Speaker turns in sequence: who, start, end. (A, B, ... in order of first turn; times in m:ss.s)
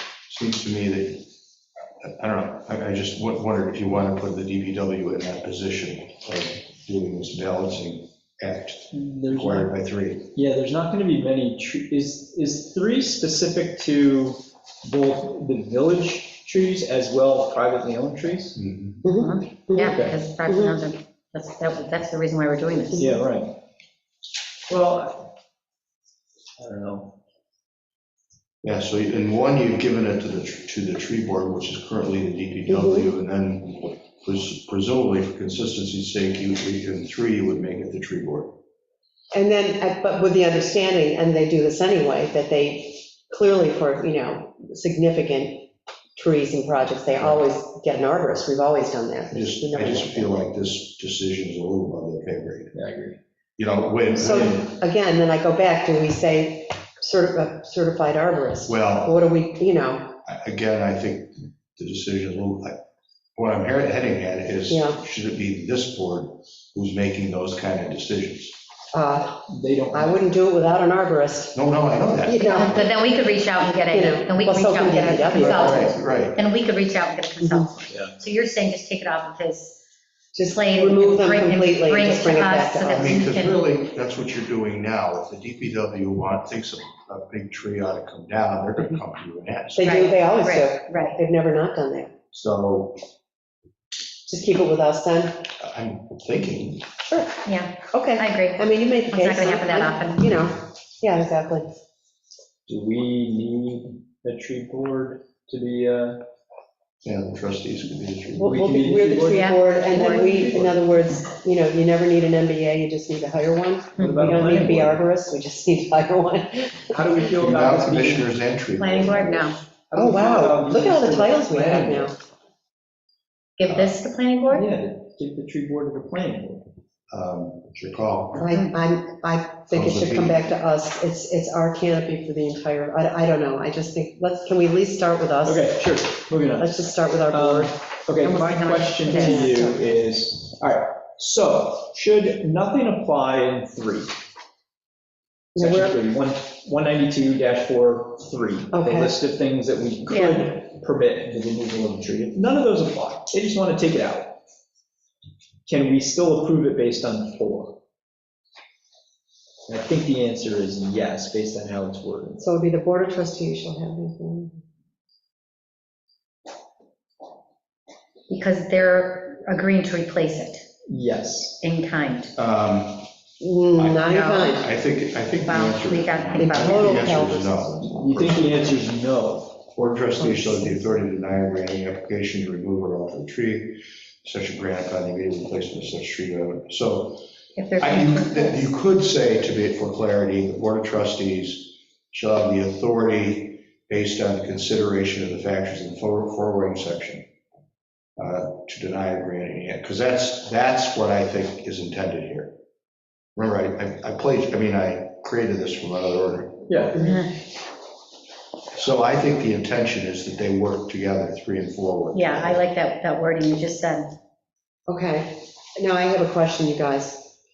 0:00.3-0:01.3 A
0:02.0-0:10.3 A
0:08.9-0:09.7 B
0:10.3-0:18.6 B
0:18.6-0:19.0 A
0:19.0-0:20.0 C
0:19.1-0:23.2 D
0:19.8-0:20.2 B
0:20.5-0:20.8 C
0:22.9-0:23.2 C
0:23.0-0:23.6 B
0:24.7-0:25.3 B
0:26.6-0:27.2 B
0:28.6-0:38.5 A
0:32.7-0:33.1 C
0:39.3-0:50.5 C
0:49.3-0:52.7 A
0:52.7-0:53.2 B
0:53.6-0:54.6 A
0:54.2-1:00.2 C
0:58.7-0:59.2 A
1:00.2-1:02.8 A
1:03.4-1:08.6 A
1:04.7-1:05.0 C
1:08.9-1:11.6 C
1:09.5-1:10.3 B
1:11.5-1:12.9 A
1:12.2-1:12.9 C
1:12.4-1:19.8 D
1:13.9-1:16.3 C
1:15.4-1:16.4 A
1:17.4-1:17.7 C
1:20.4-1:23.2 C
1:20.5-1:23.6 D
1:22.9-1:29.9 A
1:29.8-1:32.1 C
1:29.8-1:31.2 D
1:32.3-1:33.0 A
1:34.3-1:35.5 C
1:35.6-1:36.8 A
1:37.1-1:41.7 C
1:37.4-1:40.4 D
1:42.7-1:46.3 B
1:47.0-1:48.5 A
1:48.4-1:57.3 C
1:48.4-1:51.0 B
1:49.3-1:49.7 D
1:54.0-1:55.0 B
1:56.9-1:58.3 B
1:57.4-1:59.6 A
1:58.8-1:59.6 D
1:59.9-2:02.1 B
2:00.0-2:02.2 C
2:03.6-2:04.7 D
2:03.7-2:04.0 A
2:04.5-2:06.7 B
2:07.1-2:08.4 A
2:08.3-2:15.9 C
2:09.7-2:10.5 A
2:15.4-2:24.2 B
2:16.6-2:17.7 C
2:18.2-2:19.6 D
2:19.0-2:19.8 C
2:25.6-2:26.0 C
2:25.6-2:34.4 B
2:28.7-2:29.1 C
2:30.1-2:30.5 D
2:35.7-2:37.8 B
2:39.7-2:42.4 B
2:42.4-2:44.6 C
2:48.3-2:50.6 D
2:50.9-2:51.6 B
2:51.6-2:52.3 D
2:52.4-2:53.1 A
2:53.4-2:54.7 C
2:53.8-2:58.5 A
2:54.1-2:54.5 D
2:55.4-2:57.3 D
2:56.4-2:58.4 C
2:58.0-2:59.6 B
2:59.7-3:07.2 A
3:00.2-3:00.9 C
3:07.6-3:08.7 D
3:07.8-3:17.3 A
3:18.2-3:22.5 A
3:23.4-3:27.2 A
3:26.7-3:27.0 B
3:27.0-3:27.3 D
3:28.7-3:32.6 A
3:32.1-3:34.2 D
3:34.9-3:37.3 C